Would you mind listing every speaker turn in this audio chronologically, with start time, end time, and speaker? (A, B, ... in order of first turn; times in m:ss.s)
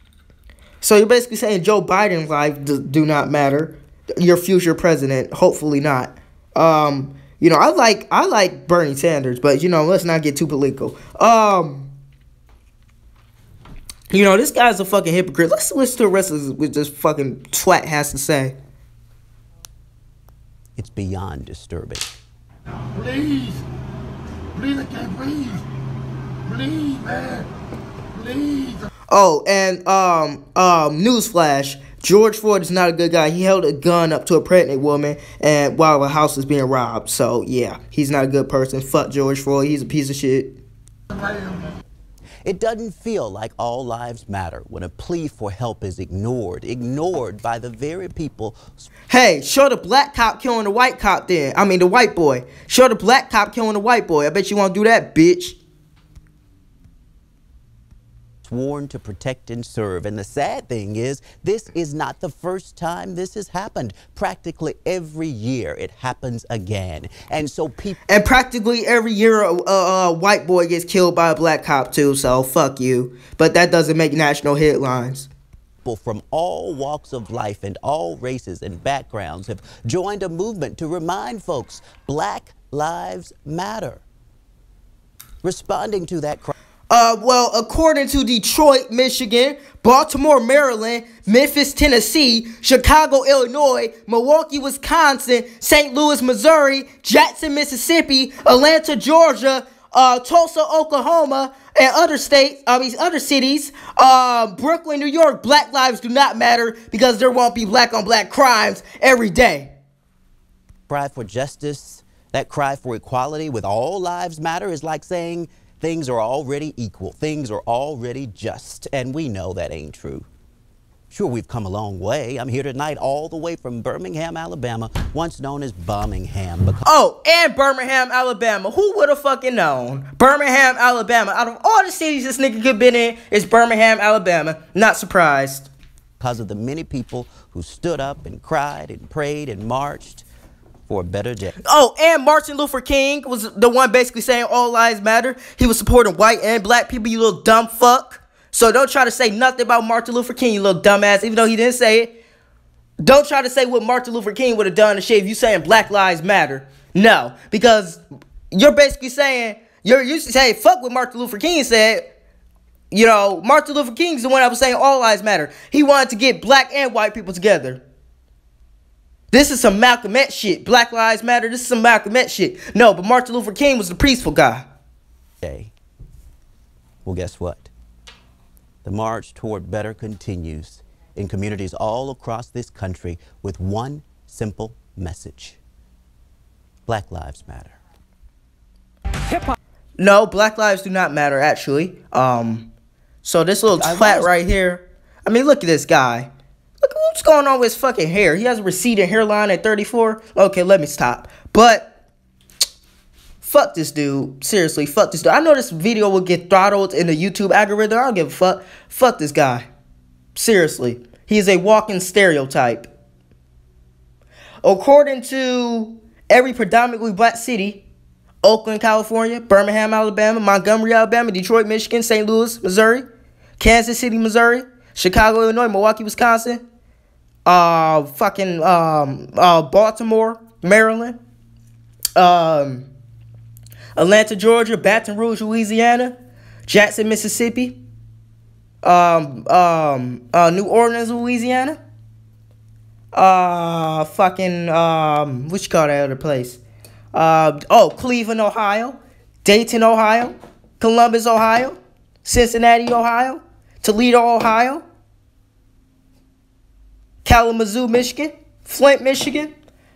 0:00.8-0:11.9 A
0:14.1-0:18.5 A
0:20.8-0:22.1 B
0:22.9-0:23.6 C
0:24.5-0:25.6 C
0:26.5-0:27.4 C
0:28.2-0:28.8 C
0:29.1-0:40.6 A
0:42.4-0:48.9 B
0:49.1-0:55.6 A
0:58.4-1:08.0 B
1:08.1-1:15.3 A
1:15.8-1:24.0 B
1:25.4-1:26.5 B
1:26.9-1:49.7 A
1:50.9-2:00.3 B
2:01.1-2:06.8 B
2:06.8-2:15.7 A
2:16.2-2:20.3 B
2:20.9-2:21.6 B
2:21.6-2:32.1 A
2:33.0-2:42.1 A
2:42.9-2:47.8 A
2:49.3-2:54.6 A
2:55.4-2:55.7 B
2:57.0-2:57.7 B
2:58.8-3:05.6 B
3:06.9-3:07.8 B
3:10.0-3:12.7 A
3:13.2-3:16.3 A
3:13.8-3:14.3 B
3:16.8-3:21.9 A
3:23.4-3:29.6 A
3:30.3-3:32.9 A
3:34.6-3:37.8 A
3:38.4-3:43.0 A
3:43.6-3:46.6 A
3:47.4-3:51.2 A
3:52.2-3:52.9 A
3:54.0-3:56.2 A
3:56.7-3:57.8 A
3:58.8-4:01.8 A
4:03.1-4:06.6 A
4:07.1-4:14.8 A
4:17.2-4:19.5 A